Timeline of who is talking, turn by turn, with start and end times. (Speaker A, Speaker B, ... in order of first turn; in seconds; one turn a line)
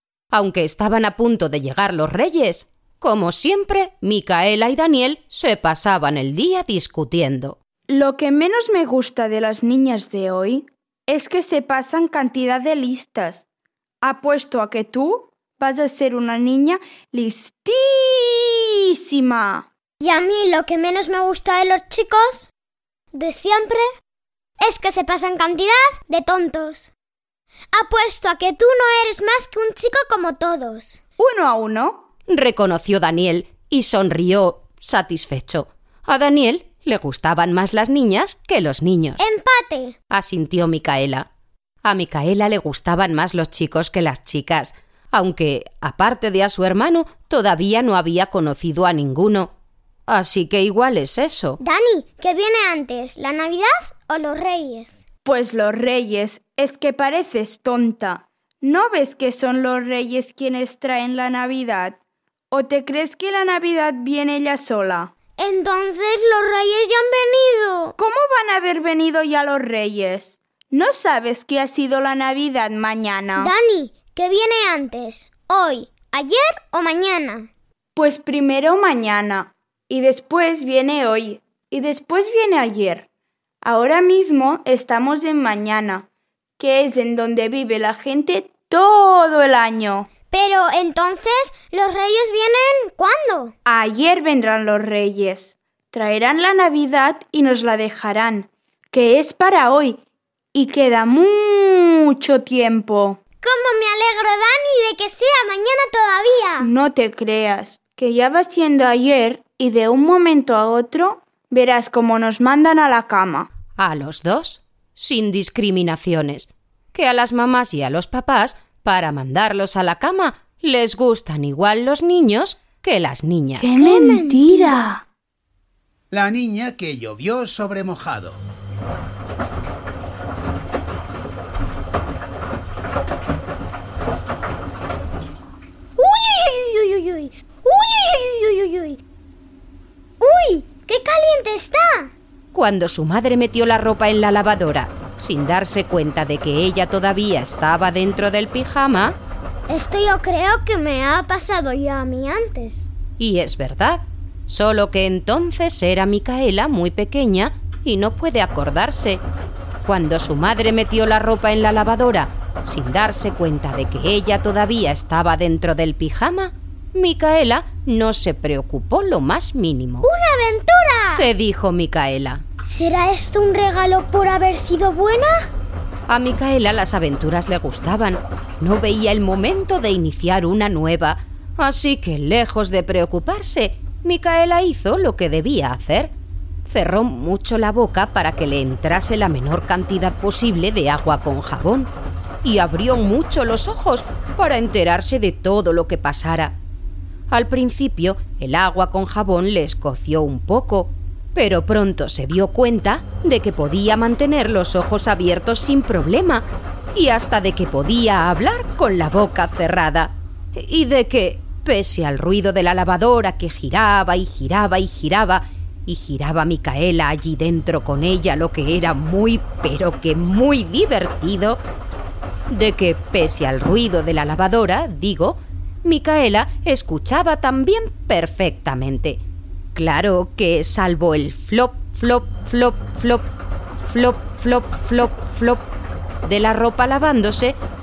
Speaker A: 0.3-7.6
Speaker B: 7.9-13.4
Speaker B: 14.0-19.7
Speaker C: 20.0-22.5
Speaker C: 23.1-23.9
Speaker C: 24.6-26.9
Speaker C: 27.7-31.0
Speaker B: 31.2-32.0
Speaker A: 32.3-39.2
Speaker C: 39.2-40.0
Speaker A: 40.1-41.3
Speaker A: 41.9-49.5
Speaker A: 50.1-51.6
Speaker C: 51.6-55.0
Speaker B: 55.2-62.0
Speaker B: 62.5-65.1
Speaker C: 65.4-68.0
Speaker B: 68.0-73.5
Speaker C: 73.3-77.5
Speaker B: 78.0-83.1
Speaker B: 83.6-86.1
Speaker B: 86.6-90.1
Speaker C: 90.3-93.5
Speaker B: 93.7-100.0
Speaker B: 100.5-103.2
Speaker C: 103.4-106.7
Speaker B: 106.6-113.5
Speaker A: 113.8-123.7
Speaker B: 123.5-125.0
Speaker C: 123.8-124.9
Speaker D: 126.1-128.4
Speaker C: 136.0-139.0
Speaker C: 140.2-142.1
Speaker A: 142.5-149.2
Speaker C: 149.7-152.9
Speaker A: 153.2-159.2
Speaker A: 159.8-170.1
Speaker C: 170.0-171.3
Speaker A: 171.1-172.4
Speaker C: 172.6-175.5
Speaker A: 176.1-186.1
Speaker A: 186.7-191.9
Speaker A: 192.4-196.6
Speaker A: 197.3-221.6
Speaker A: 222.5-229.2
Speaker A: 229.8-233.3
Speaker A: 233.8-235.6
Speaker A: 236.2-237.6